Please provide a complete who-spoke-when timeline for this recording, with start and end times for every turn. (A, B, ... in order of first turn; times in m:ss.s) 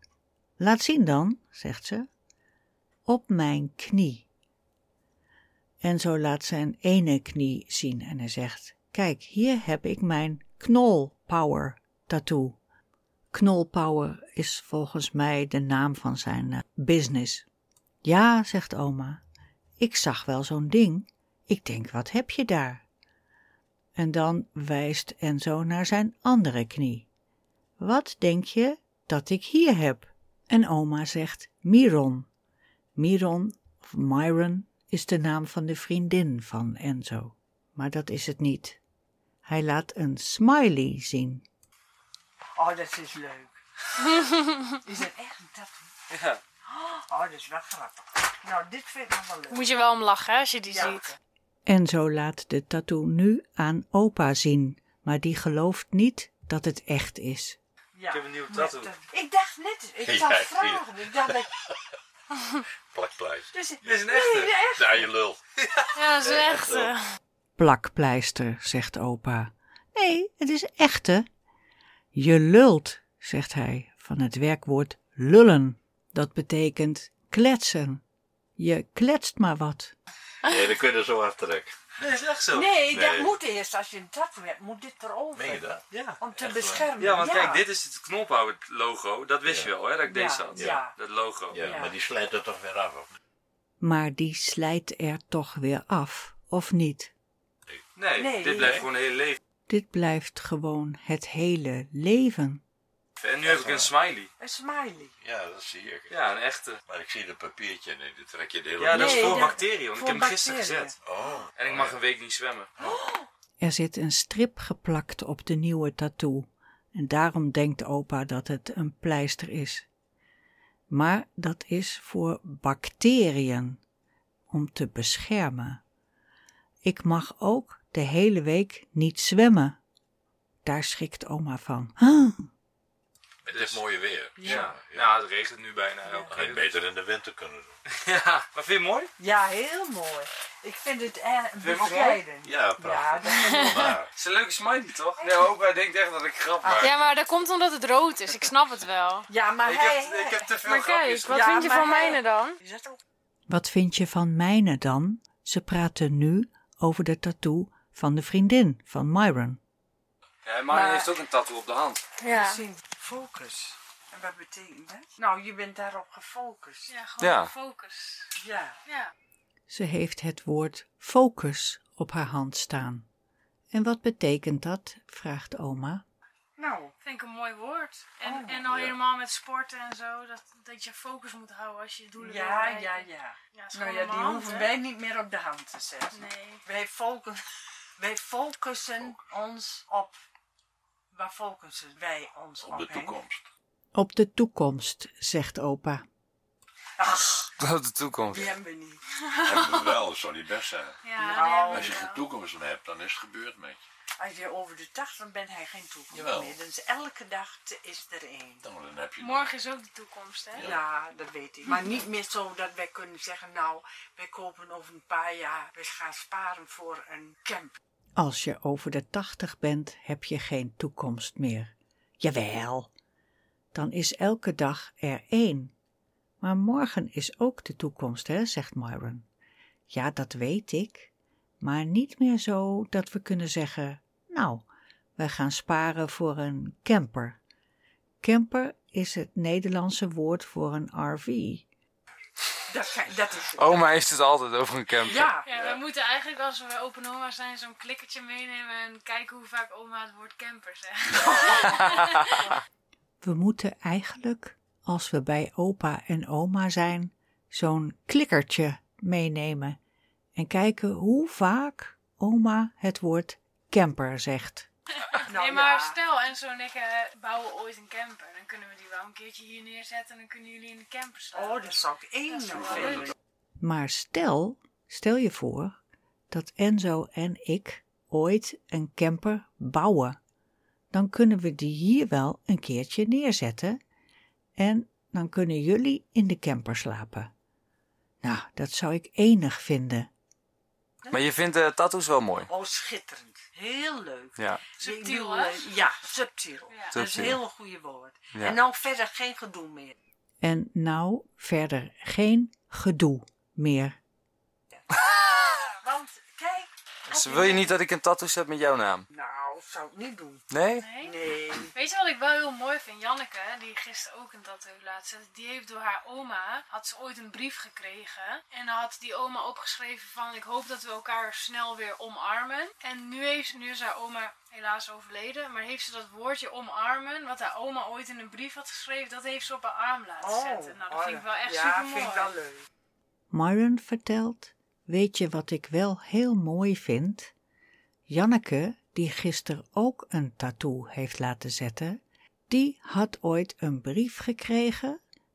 0:00.6-0:02.1 A
0:03.1-0:04.3 A
0:05.8-0:12.6 A
0:13.3-0:17.4 A
0:18.0-0:19.2 A
0:19.8-0:22.8 A
0:24.0-0:27.1 A
0:27.8-0:32.3 A
0:33.0-0:38.8 A
0:39.4-0:41.4 A
0:42.6-0:43.6 B
0:44.8-0:45.9 B
0:46.1-0:46.4 C
0:46.7-0:49.8 B
0:49.5-0:51.1 D
0:50.7-0:51.1 B
0:51.7-0:57.6 A
0:57.9-1:01.5 B
0:58.1-0:59.0 C
1:00.0-1:01.4 E
1:02.9-1:04.0 E
1:03.5-1:05.1 B
1:03.8-1:04.5 C
1:04.7-1:05.4 E
1:05.9-1:07.2 D
1:06.2-1:06.9 E
1:07.6-1:11.2 A
1:12.1-1:18.0 A
1:18.6-1:19.9 A
1:20.4-1:21.8 E
1:22.0-1:22.8 C
1:22.5-1:25.7 B
1:22.9-1:23.3 E
1:25.3-1:26.9 E
1:25.9-1:26.2 C
1:26.2-1:27.6 B
1:26.9-1:31.7 C
1:29.4-1:29.7 E
1:30.0-1:31.0 B
1:30.6-1:30.8 E
1:31.5-1:33.2 E
1:31.5-1:32.0 B
1:33.8-1:37.1 A
1:38.0-1:39.4 C
1:38.1-1:38.8 B
1:38.6-1:38.8 E
1:39.7-1:42.6 A
1:43.2-1:44.3 C
1:43.4-1:43.9 E
1:44.4-1:45.1 B
1:45.2-1:46.2 E
1:46.1-1:46.8 C
1:46.8-1:49.5 E
1:48.8-1:50.9 C
1:48.8-1:50.9 B
1:51.0-1:52.0 E
1:51.6-1:52.7 C
1:52.8-1:53.2 B
1:53.6-1:59.8 A
2:00.9-2:03.8 A
2:04.5-2:05.8 A
2:06.8-2:09.8 A
2:10.6-2:12.5 A
2:13.4-2:15.2 E
2:13.5-2:13.8 C
2:14.4-2:14.8 B
2:14.4-2:16.8 C
2:16.0-2:16.4 B
2:16.3-2:17.8 E
2:17.9-2:19.1 C
2:19.2-2:23.9 B
2:21.6-2:22.2 C
2:22.4-2:24.1 E
2:23.4-2:23.8 D
2:24.1-2:27.0 C
2:25.2-2:25.5 B
2:26.6-2:26.9 B
2:26.8-2:29.3 D
2:29.3-2:33.0 B
2:29.6-2:31.4 C
2:30.6-2:32.6 D
2:33.5-2:39.6 A
2:40.4-2:42.0 C
2:40.6-2:41.2 B
2:42.2-2:42.6 D
2:42.2-2:46.9 B
2:46.9-2:48.3 D
2:47.2-2:47.5 C
2:48.4-2:48.8 B
2:48.8-2:49.1 D
2:49.7-2:53.0 A
2:53.7-2:56.0 A
2:56.6-2:56.9 B
2:57.0-3:04.8 D
2:58.2-2:58.6 B
2:58.6-2:59.0 E
3:02.2-3:07.4 B
3:06.1-3:06.6 D
3:08.0-3:10.2 B
3:11.1-3:13.2 B
3:12.6-3:13.4 E
3:13.9-3:16.0 A
3:17.0-3:17.5 B
3:17.6-3:18.6 C
3:18.3-3:19.0 B
3:19.2-3:20.0 D
3:19.4-3:21.0 E
3:21.0-3:22.2 D
3:21.2-3:22.0 B
3:21.7-3:23.8 E
3:24.2-3:28.6 B
3:26.1-3:26.6 E
3:28.6-3:29.5 E
3:29.2-3:30.8 D
3:30.5-3:37.8 B
3:30.5-3:30.9 E
3:38.2-3:42.9 A
3:43.7-3:45.7 A
3:46.4-3:49.2 A
3:49.9-3:54.6 A
3:55.2-3:57.4 A
3:58.2-4:01.6 A
4:02.7-4:03.8 B
4:03.6-4:05.4 C
4:05.0-4:05.5 B
4:05.4-4:12.4 D
4:11.2-4:11.7 B
4:13.2-4:19.8 A
4:20.4-4:24.7 A
4:24.9-4:33.1 D
4:25.2-4:26.0 B
4:31.3-4:33.1 B
4:32.8-4:33.1 E
4:33.6-4:35.8 A
4:36.3-4:40.2 A
4:40.9-4:43.8 A
4:44.6-4:47.3 A
4:48.2-4:50.1 A
4:51.0-4:51.3 B
4:51.1-4:52.5 C
4:52.4-4:59.9 B
4:54.4-4:54.6 C
4:54.8-4:55.6 D
4:56.7-4:57.0 D
4:56.9-4:57.4 C
4:58.3-4:58.6 C
5:00.4-5:04.0 A
5:04.7-5:07.8 B
5:07.1-5:09.1 C
5:09.1-5:11.7 B
5:10.5-5:10.9 C
5:10.8-5:11.1 D
5:11.7-5:32.3 D
5:30.2-5:32.6 B
5:33.3-5:37.3 A
5:38.1-5:45.0 A